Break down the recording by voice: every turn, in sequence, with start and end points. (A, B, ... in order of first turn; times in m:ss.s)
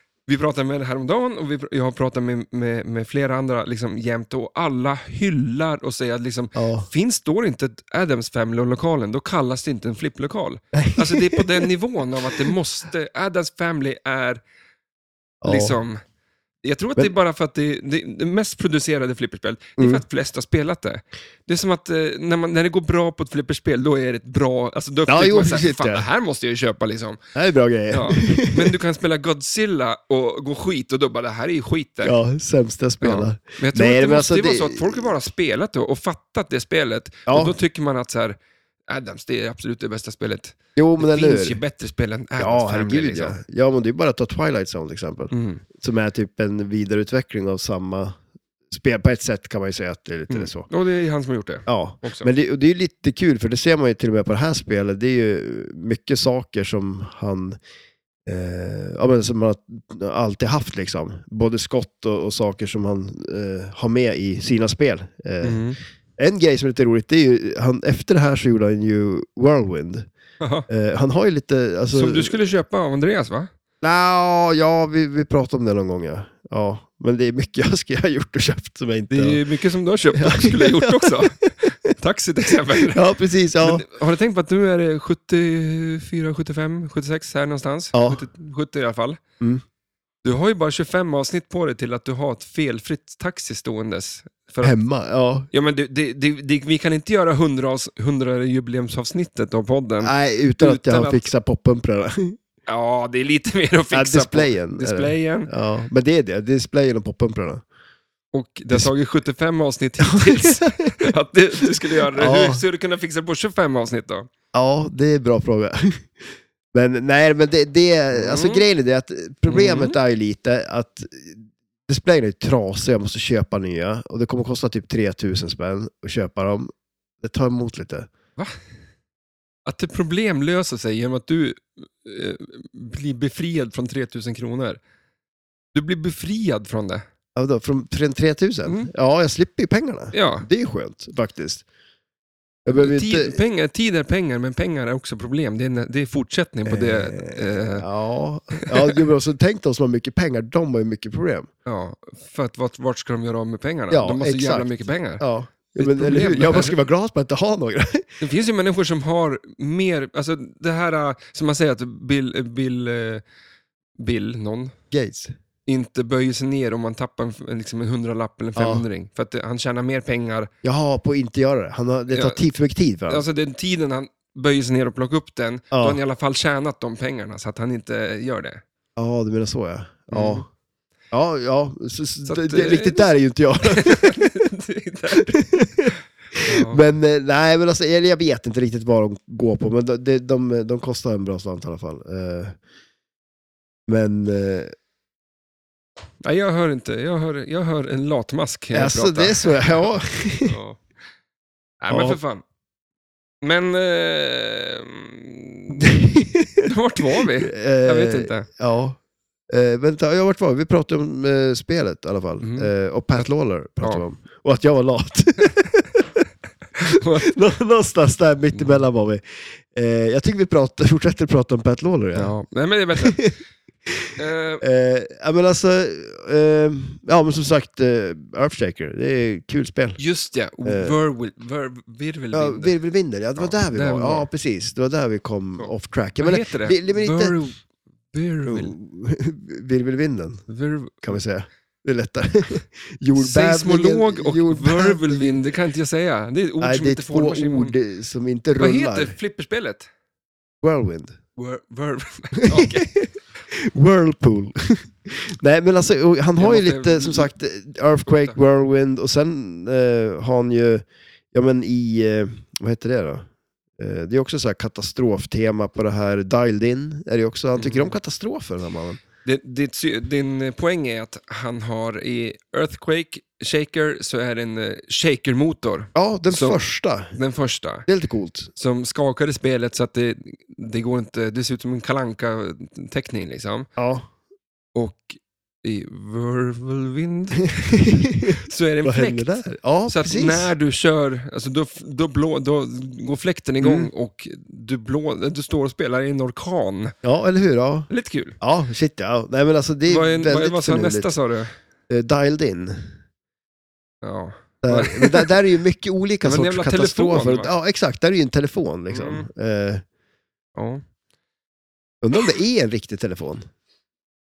0:00.3-0:14.4 A
0:06.6-0:06.9 B
0:10.7-0:11.7 B
0:15.4-0:15.8 B
0:15.4-0:16.0 A
0:16.6-0:27.2 A
0:19.8-0:20.0 B
0:25.1-0:26.1 B
0:27.4-0:28.8 B
0:27.9-0:32.2 A
0:32.0-0:35.1 B
0:33.0-0:38.4 A
0:37.3-0:37.6 B
0:38.9-0:43.4 A
0:40.8-0:41.6 B
0:42.4-0:48.2 B
0:45.3-0:45.6 A
0:48.7-0:50.7 B
0:50.3-0:52.3 A
0:51.7-0:57.6 B
0:58.3-1:05.6 B
1:05.4-1:05.8 A
1:06.2-1:10.1 B
1:10.4-1:10.7 A
1:10.7-1:12.3 B
1:11.9-1:13.5 A
1:13.8-1:19.4 B
1:19.1-1:23.0 A
1:20.2-1:21.8 B
1:22.8-1:23.9 B
1:23.6-1:29.2 A
1:27.9-1:28.2 B
1:30.2-1:34.8 A
1:34.6-1:35.5 B
1:35.5-1:41.3 A
1:40.0-1:42.4 B
1:42.7-1:45.5 A
1:43.9-1:47.6 B
1:48.3-1:54.3 A
1:50.0-1:51.1 B
1:52.1-1:52.6 B
1:54.5-1:56.1 B
1:56.7-2:08.1 B
1:58.1-1:58.7 A
1:59.5-2:00.0 A
2:09.7-2:14.8 A
2:15.7-2:17.0 A
2:17.4-2:21.6 B
2:18.6-2:18.9 A
2:20.1-2:20.5 A
2:22.6-2:23.4 B
2:22.8-2:27.8 A
2:26.7-2:31.5 B
2:28.5-2:29.0 A
2:31.7-2:35.2 A
2:33.9-2:34.7 B
2:35.2-2:38.1 B
2:35.8-2:36.8 A
2:38.2-2:43.2 A
2:44.0-2:44.7 A
2:44.9-2:45.3 B
2:45.7-2:50.5 A
2:48.6-2:48.8 B
2:50.6-2:53.2 B
2:52.1-2:52.4 A
2:53.1-2:58.6 A
2:55.7-2:56.0 B
2:59.0-3:00.4 B
3:00.1-3:00.5 A
3:01.1-3:04.3 B
3:02.2-3:03.0 A
3:03.6-3:06.8 A
3:05.2-3:12.6 B
3:13.9-3:14.7 B
3:16.2-3:19.9 A
3:18.7-3:20.6 B
3:20.4-3:20.8 A
3:21.8-3:22.4 A
3:21.9-3:22.2 B
3:23.4-3:25.9 A
3:25.7-3:26.7 B
3:26.6-3:28.5 A
3:27.2-3:29.0 B
3:29.5-3:36.2 B
3:32.4-3:33.2 A
3:36.8-3:37.3 A
3:36.8-3:42.3 B
3:38.5-3:38.8 A
3:42.2-3:43.2 A
3:43.0-3:43.3 B
3:43.9-3:50.0 B
3:44.2-3:44.6 A
3:50.0-3:52.8 A
3:50.6-3:51.0 B
3:52.3-3:57.4 B
3:53.4-3:54.3 A
3:55.6-3:57.6 A
3:58.1-3:58.8 A
3:58.5-4:00.4 B
4:00.5-4:01.2 A
4:01.0-4:05.4 B
4:03.2-4:07.8 A
4:06.6-4:09.2 B
4:08.6-4:09.9 A
4:10.6-4:11.2 B
4:11.4-4:13.0 A
4:12.4-4:23.3 B
4:16.4-4:17.3 A
4:18.1-4:18.4 A
4:23.8-4:29.0 B
4:27.6-4:27.9 A
4:29.2-4:36.6 A
4:36.0-4:37.1 B
4:37.1-4:37.9 A
4:37.9-4:38.5 B
4:38.6-4:43.7 A
4:43.8-4:44.1 B
4:44.8-4:56.9 A
4:47.6-4:50.5 B
4:53.6-4:53.9 B
4:57.0-4:57.9 B
4:57.9-4:58.4 A
4:58.4-5:01.1 B
4:59.9-5:01.5 A
5:01.9-5:02.9 B
5:04.0-5:05.3 A
5:04.6-5:09.8 B
5:06.2-5:07.5 A
5:08.9-5:09.3 A
5:10.6-5:10.8 A
5:12.0-5:13.4 B